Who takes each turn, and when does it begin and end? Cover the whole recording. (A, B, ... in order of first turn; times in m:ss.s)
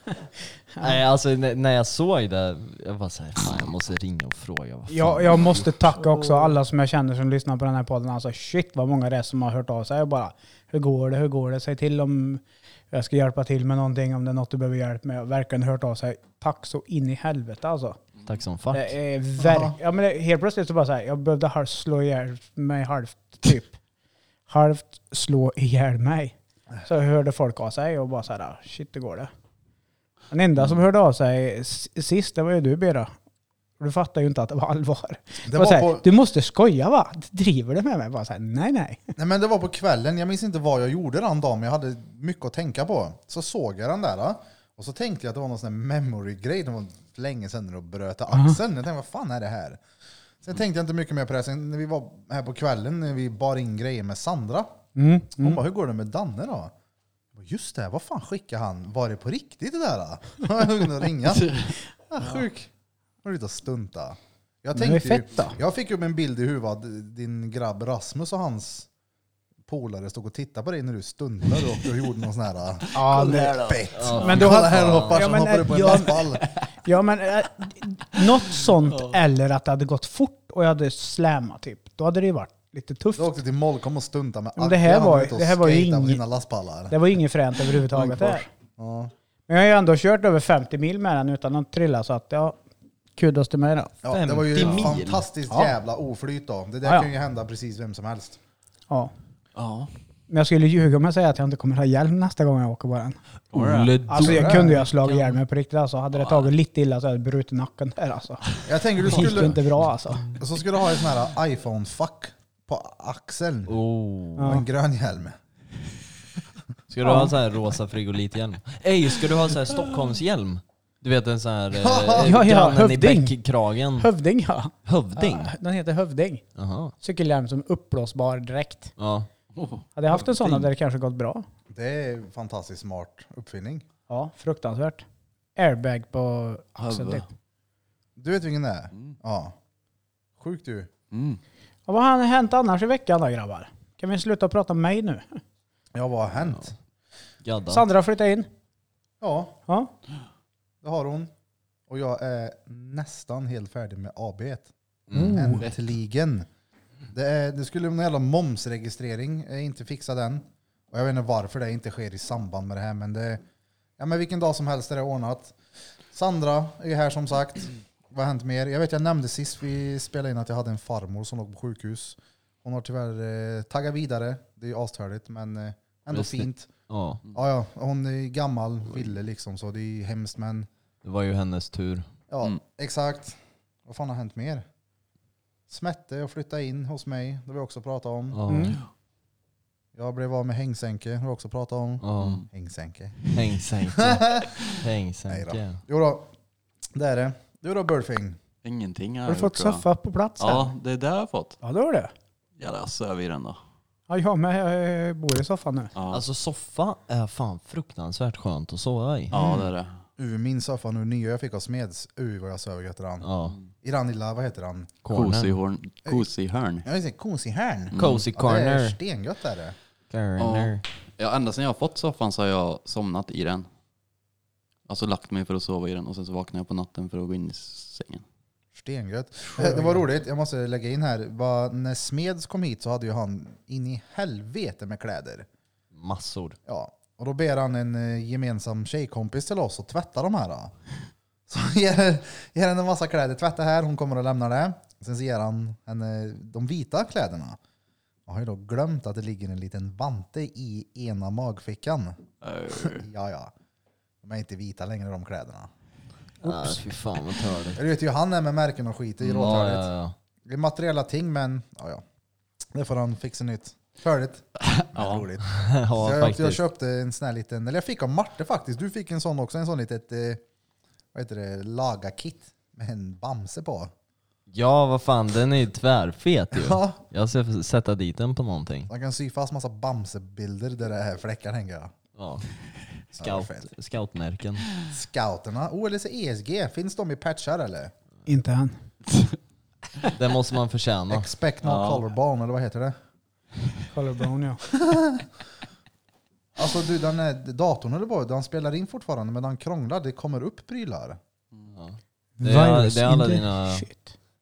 0:00.8-0:05.9 A
0:04.9-0:18.0 B
0:06.1-0:06.5 C
0:18.3-0:18.9 A
0:18.7-0:23.8 B
0:19.4-0:19.8 D
0:24.5-0:29.3 B
0:30.3-0:33.1 B
0:33.8-0:39.0 B
0:35.4-0:36.0 D
0:39.2-0:49.8 D
0:48.3-0:48.6 B
0:50.4-0:54.7 D
0:55.0-0:55.6 B
0:55.4-0:56.7 D
0:57.3-1:02.7 D
1:01.4-1:01.7 C
1:03.2-1:08.9 D
1:04.8-1:05.6 B
1:09.7-1:16.5 D
1:12.9-1:16.3 B
1:13.0-1:14.1 C
1:14.0-1:15.3 A
1:16.8-1:23.4 B
1:18.9-1:19.2 C
1:23.2-1:27.0 D
1:24.6-1:26.2 B
1:26.9-1:28.5 B
1:28.0-1:28.4 C
1:28.8-1:29.1 D
1:29.5-1:32.6 B
1:33.2-1:33.9 B
1:34.0-1:38.4 D
1:34.1-1:35.2 A
1:34.6-1:34.9 C
1:35.5-1:35.7 B
1:36.8-1:37.1 B
1:39.6-1:39.9 C
1:40.3-1:43.2 B
1:43.5-1:43.9 C
1:43.5-1:45.3 A
1:44.1-1:50.3 B
1:44.2-1:44.8 D
1:46.2-1:46.5 C
1:48.6-1:49.6 D
1:50.4-1:53.8 D
1:53.7-1:54.6 A
1:54.4-1:54.7 B
1:54.4-1:55.4 D
1:56.9-2:04.1 A
1:57.0-1:57.3 B
2:01.7-2:02.4 D
2:02.2-2:03.4 B
2:04.0-2:06.4 B
2:04.8-2:05.5 A
2:06.6-2:06.9 A
2:07.0-2:08.9 B
2:09.0-2:09.3 A
2:09.6-2:10.7 C
2:10.0-2:11.4 B
2:11.7-2:13.8 D
2:14.1-2:15.0 B
2:15.6-2:17.3 B
2:16.8-2:17.2 C
2:18.2-2:19.6 D
2:20.4-2:20.9 D
2:21.1-2:21.4 C
2:21.9-2:25.4 B
2:25.9-2:26.7 D
2:27.4-2:27.8 A
2:27.7-2:28.5 B
2:29.2-2:29.6 D
2:30.8-2:31.3 D
2:31.9-2:36.5 D
2:35.1-2:35.6 A
2:35.1-2:35.7 B
2:37.1-2:43.4 D
2:44.0-2:45.6 D
2:46.1-2:56.7 D
2:56.1-2:57.2 A
2:57.3-3:00.7 D
3:01.0-3:02.1 A
3:02.3-3:04.7 D
3:05.7-3:08.4 D
3:08.3-3:08.8 A
3:08.5-3:08.8 B
3:10.0-3:13.3 D
3:12.0-3:12.4 A
3:12.2-3:12.5 C
3:13.3-3:15.8 A
3:14.0-3:14.6 D
3:15.3-3:16.3 D
3:16.9-3:18.4 D
3:18.6-3:19.8 C
3:19.3-3:20.8 B
3:20.4-3:21.6 C
3:21.6-3:22.1 B
3:22.6-3:23.6 C
3:24.1-3:25.9 B
3:26.0-3:26.2 C
3:26.1-3:29.4 A
3:29.3-3:30.0 C
3:29.3-3:33.3 D
3:33.2-3:33.6 A
3:33.8-3:35.0 D
3:35.0-3:35.6 A
3:35.1-3:36.9 C
3:36.8-3:39.8 D
3:37.9-3:38.2 C
3:38.0-3:39.0 A
3:40.1-3:40.8 A
3:40.4-3:43.7 C
3:44.9-3:48.2 C
3:48.7-3:55.5 D
3:49.6-3:50.0 C
3:55.9-3:56.6 A
3:56.7-4:00.7 D
4:01.5-4:07.6 D
4:08.3-4:12.2 D
4:12.4-4:13.0 C
4:12.7-4:13.5 D
4:14.2-4:15.7 D
4:16.4-4:16.8 B
4:16.4-4:17.8 A
4:17.8-4:19.9 D
4:19.3-4:20.1 A
4:20.5-4:22.0 D
4:22.7-4:30.4 D
4:24.8-4:25.3 C
4:25.5-4:26.6 A
4:31.1-4:33.9 D
4:34.5-4:38.9 A
4:36.5-4:37.0 D
4:38.9-4:41.9 D
4:42.2-4:42.4 A
4:43.1-4:44.7 A
4:43.2-4:43.7 D
4:44.9-4:47.9 D
4:48.3-4:48.8 B
4:49.1-4:49.4 C
4:50.1-4:51.3 A
4:51.1-4:53.0 D
4:51.6-4:52.0 C
4:53.9-4:54.6 B
4:54.7-4:55.2 D
4:56.6-5:01.2 D
5:01.7-5:03.9 A
5:02.4-5:04.1 B